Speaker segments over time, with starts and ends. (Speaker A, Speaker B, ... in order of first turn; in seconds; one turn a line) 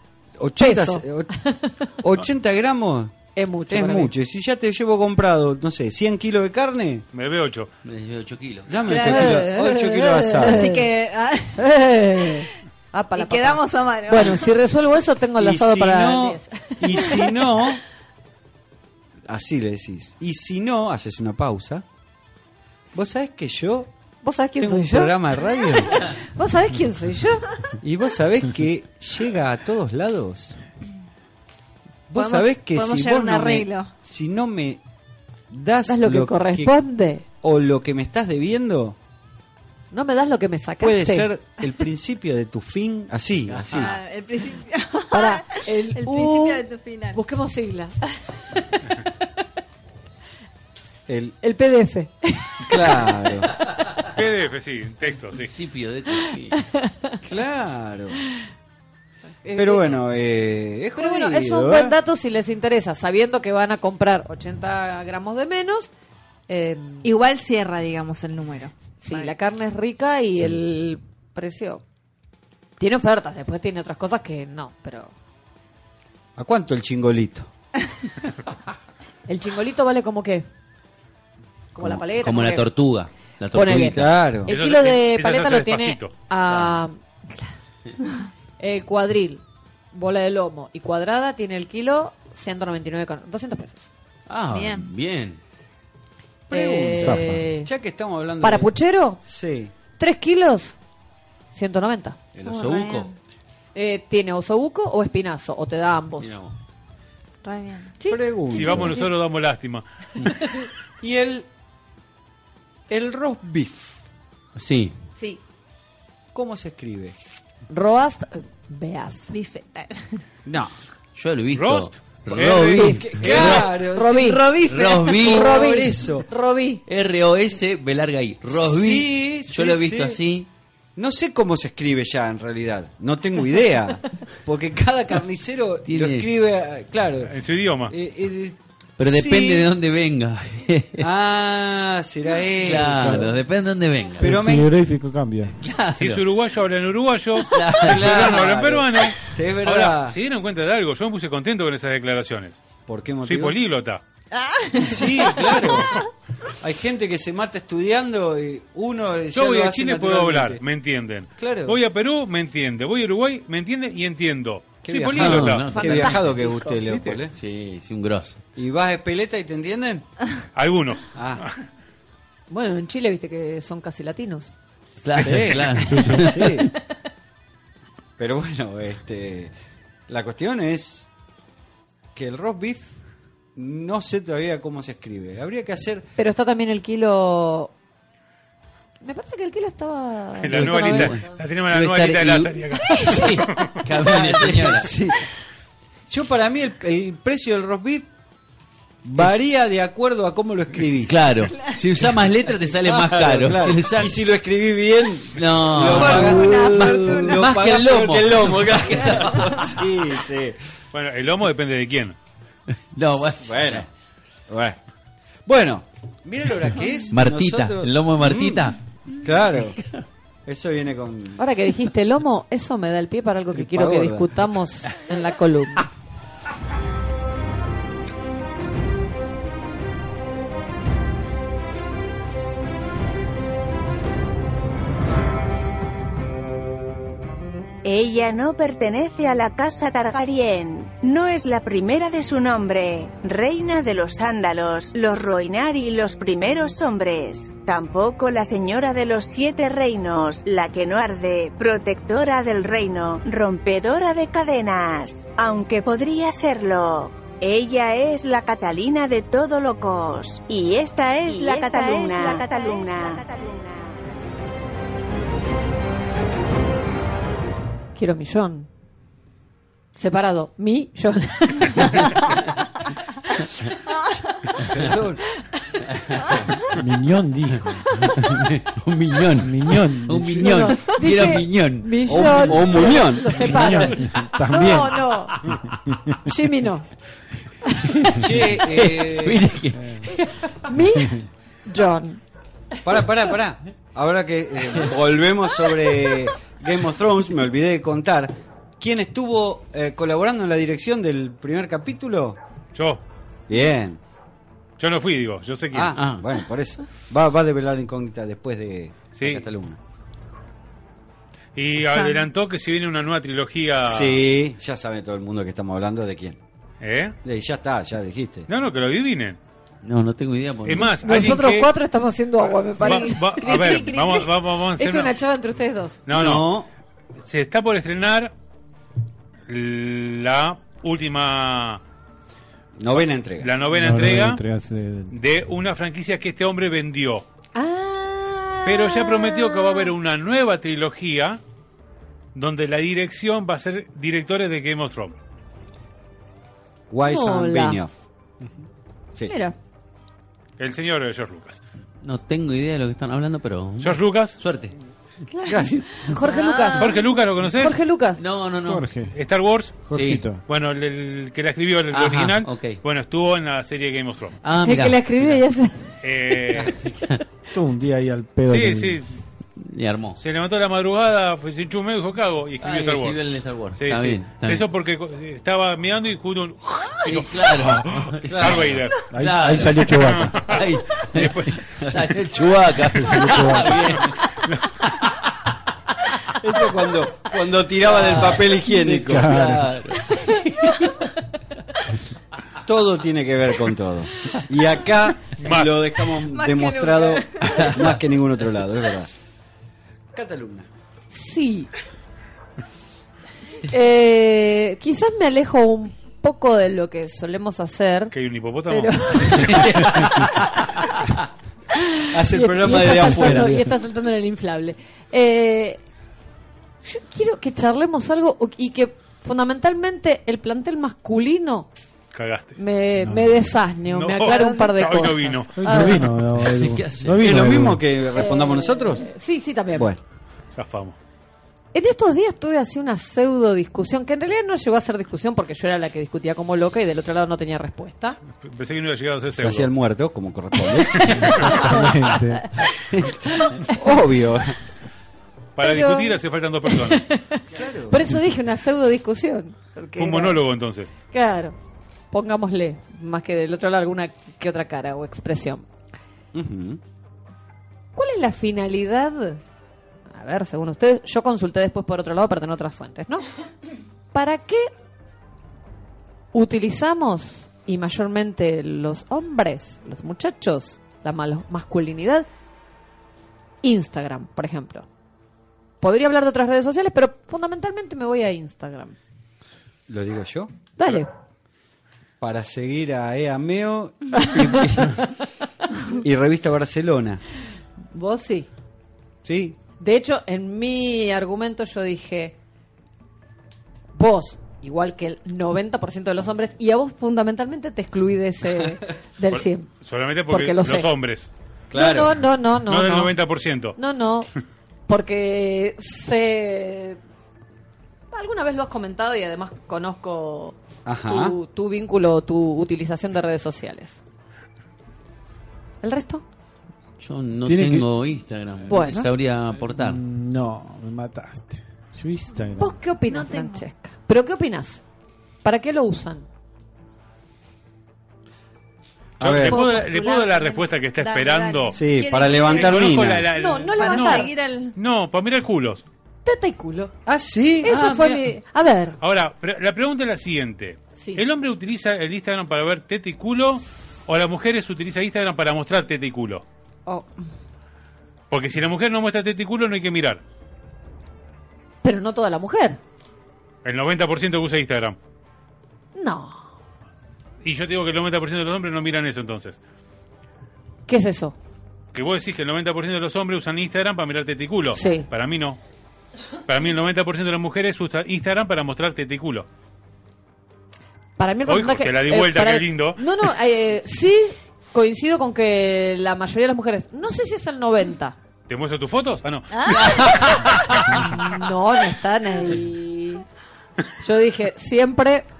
Speaker A: 0.4-1.3
Speaker B: 0.6-1.7
Speaker A: 2.0-3.1
Speaker B: 3.4-4.1
Speaker A: 3.7-7.0
Speaker C: 7.1-7.7
Speaker D: 7.8-8.9
Speaker A: 8.7-10.7
Speaker E: 8.8-9.5
Speaker B: 8.9-10.9
Speaker E: 10.4-11.6
Speaker B: 11.6-17.2
Speaker E: 13.2-14.5
Speaker A: 15.4-17.8
Speaker A: 19.3-21.8
Speaker A: 22.9-23.9
Speaker B: 24.2-27.5
Speaker A: 24.6-26.0
Speaker A: 27.8-30.6
Speaker A: 32.1-34.8
Speaker E: 32.1-33.9
Speaker A: 35.5-36.7
Speaker B: 35.9-37.2
Speaker A: 37.4-39.0
Speaker B: 39.9-41.3
Speaker A: 40.8-43.9
Speaker D: 43.5-44.0
Speaker E: 43.7-47.2
Speaker B: 45.1-47.9
Speaker B: 48.6-49.0
Speaker A: 51.1-51.4
Speaker B: 51.4-53.0
Speaker A: 52.6-53.5
Speaker C: 54.1-55.5
Speaker D: 55.4-56.6
Speaker B: 56.5-57.0
Speaker A: 57.2-58.2
Speaker B: 59.4-60.0
Speaker A: 59.5-62.0
Speaker B: 61.0-65.9
Speaker B: 66.5-67.1
Speaker E: 67.0-69.3
Speaker B: 69.0-71.8
Speaker B: 72.8-75.1
Speaker A: 76.3-77.5
Speaker B: 79.3-80.5
Speaker B: 81.7-82.7
Speaker D: 81.8-84.2
Speaker B: 83.5-87.5
Speaker A: 83.7-84.5
Speaker C: 84.5-86.1
Speaker B: 88.6-93.9
Speaker D: 94.3-95.4
Speaker E: 94.5-94.9
Speaker B: 96.5-97.7
Speaker A: 96.5-99.7
Speaker F: 97.0-97.4
Speaker B: 98.4-99.2
Speaker B: 100.0-100.8
Speaker B: 101.5-102.2
Speaker D: 102.3-103.1
Speaker E: 102.4-103.1
Speaker B: 103.7-106.3
Speaker D: 106.2-106.5
Speaker E: 107.4-107.9
Speaker B: 108.0-109.1
Speaker A: 108.1-109.0
Speaker C: 108.5-109.8
Speaker A: 111.0-111.5
Speaker A: 112.9-114.0
Speaker D: 114.5-114.9
Speaker A: 116.3-117.1
Speaker B: 117.7-119.3
Speaker E: 119.3-120.2
Speaker A: 120.5-120.7
Speaker D: 121.1-123.7
Speaker C: 121.5-123.3
Speaker A: 122.3-124.5
Speaker B: 123.7-124.5
Speaker E: 124.2-125.4
Speaker D: 124.6-125.6
Speaker B: 125.1-126.8
Speaker A: 125.2-126.3
Speaker D: 126.9-130.5
Speaker A: 128.5-130.2
Speaker A: 130.9-137.3
Speaker D: 135.8-136.2
Speaker C: 137.2-137.9
Speaker A: 137.8-139.7
Speaker D: 139.0-141.1
Speaker A: 141.0-143.4
Speaker D: 142.6-144.4
Speaker F: 142.9-143.3
Speaker A: 144.2-144.7
Speaker F: 144.2-145.6
Speaker D: 145.6-146.2
Speaker C: 146.0-152.6
Speaker D: 147.5-148.3
Speaker A: 147.8-150.2
Speaker A: 152.9-153.6
Speaker C: 153.2-154.0
Speaker E: 154.3-156.1
Speaker A: 154.7-155.9
Speaker A: 156.6-160.6
Speaker C: 159.3-165.7
Speaker A: 161.4-161.8
Speaker A: 164.8-167.3
Speaker D: 165.1-166.7
Speaker B: 165.7-166.7
Speaker C: 166.9-167.2
Speaker D: 167.3-168.4
Speaker A: 168.6-170.0
Speaker C: 170.5-171.6
Speaker A: 171.1-171.4
Speaker B: 172.5-174.5
Speaker D: 175.0-176.5
Speaker A: 175.1-176.7
Speaker F: 175.8-176.3
Speaker A: 178.2-179.5
Speaker A: 180.1-181.1
Speaker A: 182.1-182.9
Speaker A: 183.6-186.1
Speaker B: 186.2-187.7
Speaker B: 189.0-191.2
Speaker C: 190.4-193.8
Speaker D: 190.5-194.9
Speaker B: 192.9-193.2
Speaker A: 193.9-195.2
Speaker A: 196.1-198.1
Speaker A: 199.0-201.4
Speaker D: 201.0-204.1
Speaker E: 201.5-201.8
Speaker A: 202.6-210.6
Speaker D: 205.3-209.8
Speaker E: 205.8-207.4
Speaker C: 210.9-212.2
Speaker D: 212.9-213.9
Speaker A: 213.1-213.9
Speaker A: 214.5-214.8
Speaker A: 215.4-219.8
Speaker D: 217.1-218.8
Speaker A: 220.4-221.4
Speaker B: 221.4-225.8
Speaker A: 223.5-224.4
Speaker G: 237.8-264.0
Speaker E: 261.4-263.1
Speaker B: 267.9-268.7
Speaker B: 269.9-272.2
Speaker A: 274.6-275.2
Speaker F: 276.8-278.1
Speaker D: 278.2-282.9
Speaker F: 279.4-280.5
Speaker B: 280.3-285.4
Speaker A: 282.1-283.8
Speaker F: 282.6-286.2
Speaker B: 286.2-286.9
Speaker B: 287.7-288.1
Speaker A: 288.1-289.5
Speaker D: 288.6-290.0
Speaker F: 289.7-290.0
Speaker B: 290.1-292.2
Speaker A: 292.8-302.4
Speaker C: 302.7-303.0
Speaker A: 303.5-304.0
Speaker C: 304.8-306.0
Speaker A: 305.7-309.8
Speaker D: 305.9-306.2
Speaker C: 309.2-309.4
Speaker C: 311.6-314.2
Speaker E: 311.9-312.2
Speaker A: 313.8-316.4
Speaker C: 316.8-317.1
Speaker A: 317.2-318.5
Speaker C: 318.5-319.4
Speaker D: 319.8-320.9
Speaker C: 320.6-321.7
Speaker B: 321.0-324.0
Speaker C: 322.8-325.1
Speaker E: 322.8-324.3
Speaker B: 324.8-326.0
Speaker C: 326.1-326.5
Speaker A: 326.1-326.7
Speaker C: 327.2-328.3
Speaker C: 329.5-331.8
Speaker A: 332.8-333.5
Speaker C: 332.9-334.4
Speaker F: 333.7-335.1
Speaker C: 335.1-337.2
Speaker B: 337.5-339.9
Speaker C: 338.6-341.4
Speaker C: 342.3-345.1
Speaker A: 346.9-347.9
Speaker B: 347.0-347.8
Speaker B: 349.3-349.5
Speaker C: 350.6-351.6
Speaker D: 352.0-354.7
Speaker C: 353.8-354.4
Speaker A: 355.4-355.9
Speaker B: 356.0-358.2
Speaker E: 356.1-357.1
Speaker C: 356.7-357.8
Speaker D: 358.2-358.9
Speaker F: 358.6-359.1
Speaker C: 359.1-359.8
Speaker F: 359.8-360.4
Speaker D: 359.9-360.2
Speaker C: 360.4-364.4
Speaker D: 361.9-362.8
Speaker D: 364.4-365.4
Speaker B: 364.6-365.9
Speaker C: 366.0-366.8
Speaker D: 366.6-367.2
Speaker F: 367.5-369.0
Speaker C: 368.5-369.1
Speaker D: 369.6-370.2
Speaker C: 370.2-379.1
Speaker D: 372.6-374.6
Speaker D: 377.0-384.2
Speaker A: 378.3-378.8
Speaker F: 379.1-380.5
Speaker C: 379.9-380.6
Speaker C: 381.1-381.6
Speaker F: 383.0-383.9
Speaker A: 386.4-389.5
Speaker D: 387.8-391.0
Speaker F: 388.7-389.8
Speaker A: 392.6-399.1
Speaker C: 395.4-395.7
Speaker E: 396.2-397.7
Speaker A: 400.1-400.7
Speaker B: 401.1-401.7
Speaker B: 403.6-408.1
Speaker C: 408.1-409.7
Speaker B: 408.7-410.0
Speaker D: 409.3-410.3
Speaker B: 411.8-415.8
Speaker A: 412.1-413.6
Speaker F: 412.8-413.6
Speaker B: 416.8-421.7
Speaker C: 422.1-422.6
Speaker B: 422.6-426.1
Speaker F: 423.0-423.6
Speaker C: 423.9-425.7
Speaker E: 424.3-425.1
Speaker F: 425.5-427.8
Speaker D: 426.4-427.5
Speaker A: 427.2-429.1
Speaker B: 428.1-429.9
Speaker A: 429.7-430.0
Speaker C: 430.5-431.0
Speaker B: 431.7-438.2
Speaker C: 438.4-439.7
Speaker A: 439.4-441.5
Speaker B: 440.9-442.0
Speaker F: 441.2-442.5
Speaker A: 442.8-444.5
Speaker B: 443.4-444.0
Speaker C: 445.6-447.1
Speaker B: 445.6-450.4
Speaker A: 447.5-448.0
Speaker C: 450.0-450.9
Speaker B: 451.1-451.5
Speaker B: 452.1-455.6
Speaker A: 456.3-456.8
Speaker B: 457.9-459.4
Speaker B: 460.1-463.2
Speaker B: 464.1-464.7
Speaker B: 466.3-472.3
Speaker B: 473.6-474.9
Speaker B: 475.8-478.9
Speaker A: 479.9-480.5
Speaker B: 480.8-481.1
Speaker A: 482.2-485.0
Speaker B: 484.1-485.1
Speaker A: 486.0-487.2
Speaker B: 487.9-488.5
Speaker A: 489.2-489.6
Speaker B: 489.8-492.4
Speaker B: 493.9-499.7
Speaker C: 499.3-501.3
Speaker B: 500.3-500.9
Speaker A: 501.7-502.2
Speaker B: 501.7-503.1
Speaker C: 502.6-503.8
Speaker B: 503.8-504.3
Speaker B: 504.9-507.0
Speaker B: 508.1-514.0
Speaker A: 510.8-511.3
Speaker B: 515.8-516.2
Speaker D: 517.0-520.0
Speaker F: 517.4-517.9
Speaker B: 518.7-519.1
Speaker F: 519.7-522.8
Speaker B: 522.6-524.8
Speaker E: 523.0-523.6
Speaker B: 525.4-526.2
Speaker A: 529.2-529.6
Speaker C: 529.2-531.8
Speaker B: 529.5-530.1
Speaker E: 529.5-534.7
Speaker A: 531.7-533.3
Speaker C: 532.4-535.8
Speaker B: 533.3-534.3
Speaker B: 536.2-536.9
Speaker A: 537.0-537.7
Speaker B: 537.6-539.0
Speaker E: 537.7-538.2
Speaker C: 539.0-546.4
Speaker C: 548.3-550.2
Speaker B: 551.8-552.8
Speaker C: 553.6-555.0
Speaker B: 555.9-556.5
Speaker C: 557.4-559.6
Speaker B: 560.9-561.4
Speaker C: 561.9-565.6
Speaker B: 564.7-565.1
Speaker C: 566.5-569.5
Speaker B: 571.2-578.1
Speaker C: 571.5-573.0
Speaker C: 578.5-581.0
Speaker E: 579.5-580.2
Speaker B: 580.9-583.2
Speaker B: 584.0-585.2